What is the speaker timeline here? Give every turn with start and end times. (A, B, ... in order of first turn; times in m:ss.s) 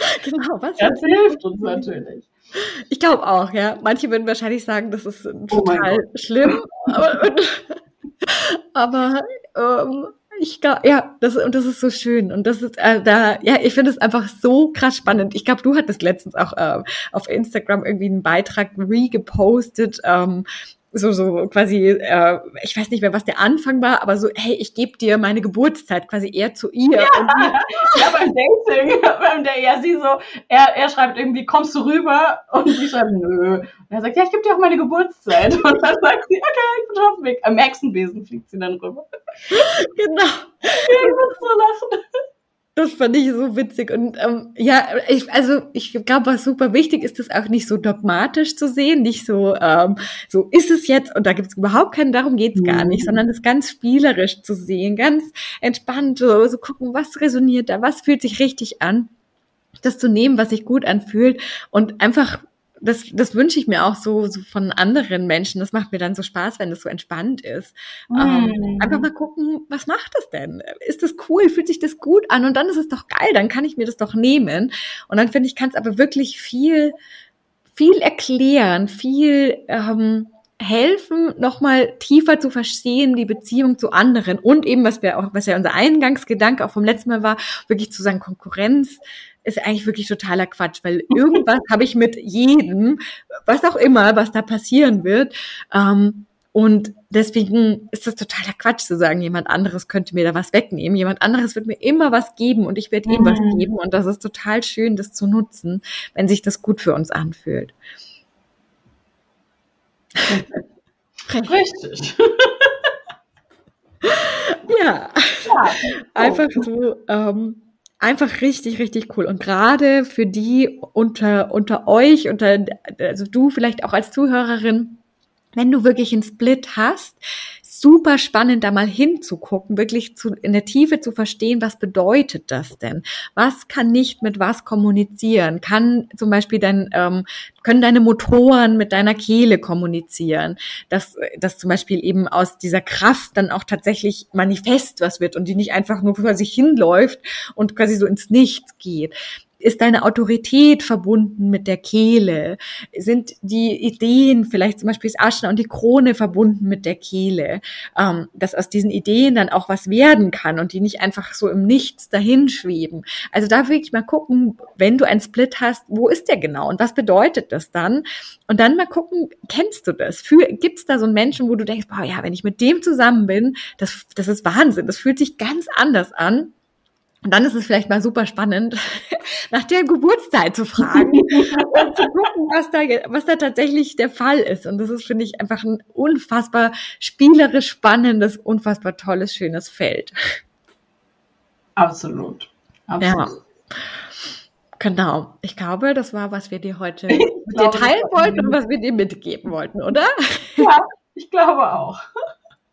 0:00.2-0:01.9 A
0:00.8-0:02.3 B
0:02.6-0:27.9 A
0:05.5-0:07.0 B
0:27.0-0:39.7 B
0:39.5-0:41.2 A
0:40.6-0:42.0 B
0:42.8-0:59.1 A
0:52.6-0:53.2 B
0:59.8-1:17.0 A
1:08.1-1:09.0 B
1:17.7-1:47.8 A
1:43.1-1:43.7 B
1:50.3-1:50.6 B
1:51.4-1:52.8 B
1:54.0-2:05.0 A
1:55.5-1:56.6 B
2:05.6-2:56.6 A
2:57.2-3:10.2 A
3:00.8-3:02.1 B
3:11.8-3:13.4 B
3:13.0-3:13.3 A
3:14.8-3:20.7 A
3:17.1-3:18.6 B
3:20.6-3:22.0 B